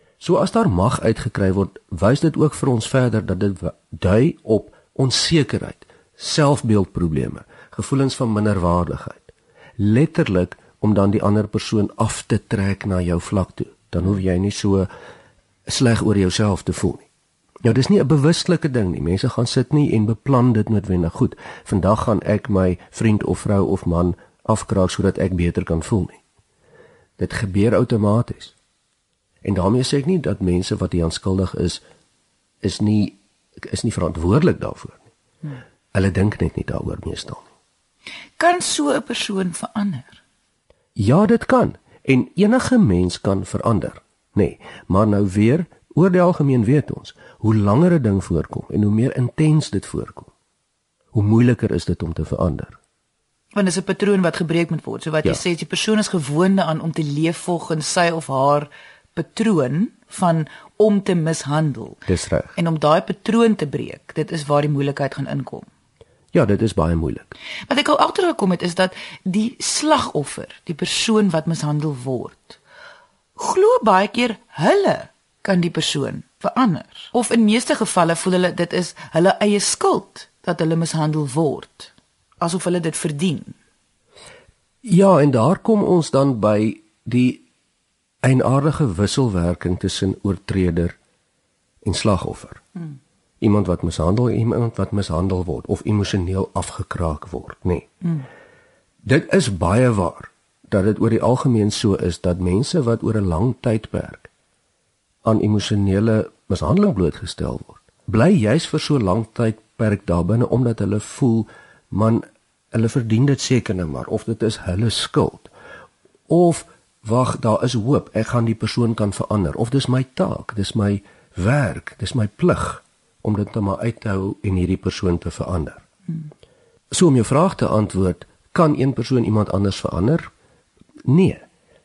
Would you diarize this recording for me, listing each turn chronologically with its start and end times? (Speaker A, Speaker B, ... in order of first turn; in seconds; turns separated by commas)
Speaker A: 0.2-14.9, Speaker A: 15.7-17.1, Speaker A: 17.6-26.2, Speaker A: 27.2-28.5, Speaker A: 29.4-31.8, Speaker A: 32.6-35.0, Speaker A: 35.9-37.5, Speaker B: 38.4-40.2, Speaker A: 41.0-50.3, Speaker A: 51.1-52.8, Speaker B: 53.5-62.0, Speaker A: 62.1-62.5, Speaker B: 62.5-65.7, Speaker A: 66.3-67.3, Speaker B: 67.7-72.6, Speaker B: 73.3-83.6, Speaker A: 84.8-87.4, Speaker A: 88.2-91.0, Speaker A: 91.8-92.6, Speaker A: 93.4-97.9, Speaker A: 99.0-104.3, Speaker A: 105.2-115.5, Speaker A: 116.3-125.8, Speaker A: 126.9-130.2, Speaker A: 131.1-131.4